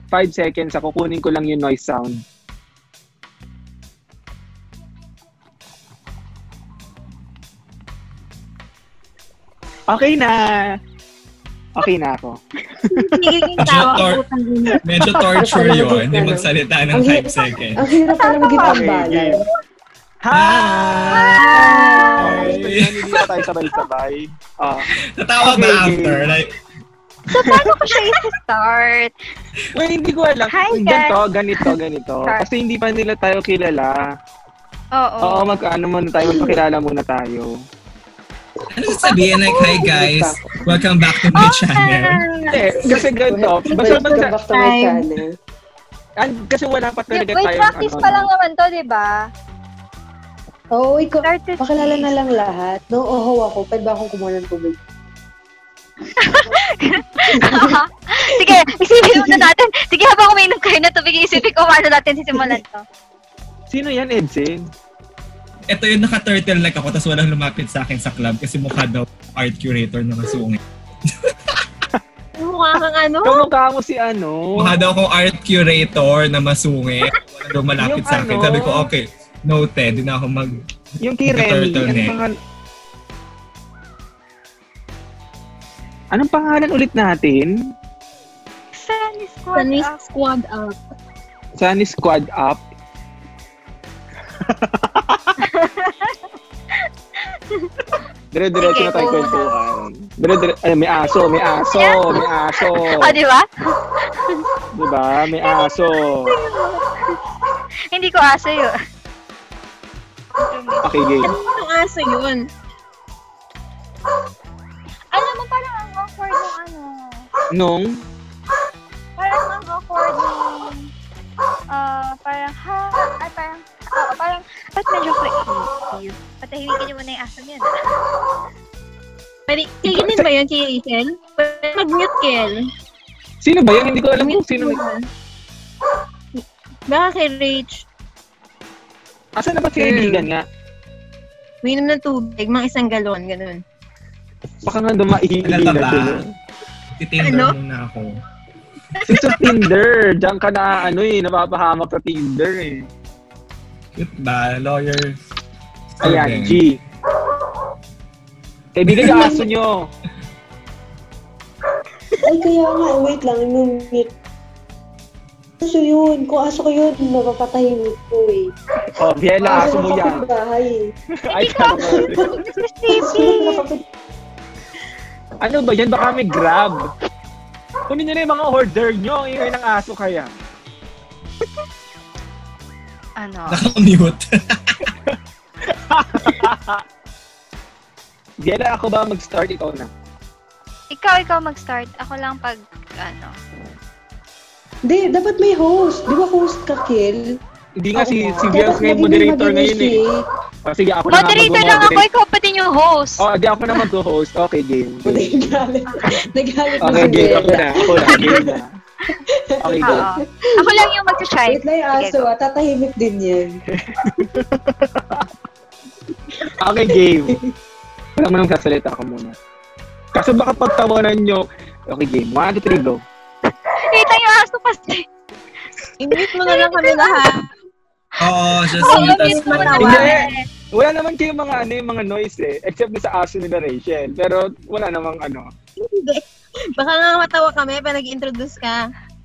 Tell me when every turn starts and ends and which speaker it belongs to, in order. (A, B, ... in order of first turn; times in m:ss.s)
0:00.1-0:02.2 A
0:09.9-0:10.4 A
0:11.8-0:13.0 A
0:13.0-0:14.8 B
0:13.6-0:14.2 C
0:14.8-0:17.8 C
0:15.4-0:19.4 D
0:18.2-0:18.8 E
0:18.6-0:19.4 A
0:20.2-0:21.2 A
0:20.3-0:21.4 C
0:21.1-0:22.5 E
0:21.6-0:22.6 D
0:22.2-0:23.2 C
0:22.2-0:24.8 A
0:25.1-0:26.5 C
0:25.4-0:26.3 A
0:27.3-0:29.1 E
0:29.8-0:34.0 A
0:30.5-0:32.4 E
0:35.0-0:35.5 E
0:35.2-0:37.5 A
0:36.2-0:36.6 D
0:38.8-0:42.2 C
0:39.0-0:39.8 E
0:39.8-0:40.4 D
0:41.3-0:42.0 E
0:42.1-0:42.7 B
0:42.5-0:44.3 A
0:43.2-0:45.2 D
0:43.7-0:45.1 B
0:46.2-0:48.3 A
0:47.1-0:49.1 E
0:50.7-0:54.8 D
0:51.2-0:52.1 E
0:56.2-1:02.8 E
0:57.3-0:57.7 D
0:59.1-0:59.5 D
1:02.3-1:02.6 D
1:03.7-1:04.6 A
1:05.7-1:10.6 C
1:12.4-1:13.5 B
1:13.2-1:14.6 A
1:14.6-1:20.6 C
1:17.8-1:18.8 A
1:21.0-1:22.3 A
1:21.2-1:22.2 C
1:26.1-1:27.4 A
1:28.8-1:30.0 E
1:29.5-1:30.8 B
1:31.6-1:32.6 A
1:35.4-1:36.1 E
1:38.3-1:43.2 A
1:38.6-1:39.6 E
1:41.0-1:43.4 E
1:44.7-1:46.3 A
1:45.4-1:46.8 E
1:47.9-1:48.7 E
1:50.4-1:51.2 E
1:50.8-1:51.3 A
1:51.2-1:52.4 B
1:55.1-1:57.2 E
1:57.5-1:57.8 A
1:59.2-2:00.9 E
2:01.7-2:07.7 E
2:09.5-2:12.7 B
2:09.9-2:10.3 A
2:13.4-2:14.8 A
2:14.0-2:15.0 B
2:16.9-2:17.8 B
2:19.4-2:20.4 A
2:19.8-2:20.3 B
2:21.6-2:23.6 B
2:24.6-2:26.2 A
2:25.4-2:26.2 C
2:27.0-2:28.2 C
2:27.2-2:27.5 B
2:29.1-2:32.7 A
2:29.1-2:29.4 B
2:34.0-2:35.2 C
2:36.0-2:36.6 C
2:36.0-2:36.8 A
2:38.8-2:39.9 A
2:39.0-2:39.5 D
2:42.2-2:44.1 D
2:45.6-2:48.4 D
2:49.0-2:50.2 A
2:49.4-2:50.8 D
2:51.3-2:53.6 E
2:51.3-2:52.3 A
2:51.7-2:52.3 D
2:52.9-2:53.8 D
2:55.4-2:56.8 A
2:57.9-3:00.3 A
3:03.2-3:03.7 E
3:03.5-3:04.8 C
3:06.2-3:06.7 A
3:08.4-3:09.9 A
3:10.9-3:13.3 E
3:14.9-3:17.4 D
3:17.8-3:20.0 A
3:18.0-3:20.2 D
3:20.6-3:22.0 A
3:21.1-3:23.2 E
3:23.2-3:25.2 A
3:25.0-3:28.5 D
3:26.8-3:28.7 A
3:29.5-3:30.2 D
3:29.6-3:30.1 A
3:29.8-3:32.2 E
3:31.4-3:33.6 D
3:36.6-3:37.4 A
3:38.2-3:39.3 A
3:40.1-3:43.0 A
3:43.8-3:45.0 E
3:46.0-3:47.5 B
3:46.1-3:47.3 E
3:48.2-3:50.1 C
3:48.7-3:50.4 E
3:48.8-3:50.2 B
3:49.7-3:50.2 A
3:50.7-3:55.4 A
3:55.8-3:56.2 B
3:56.8-3:58.8 B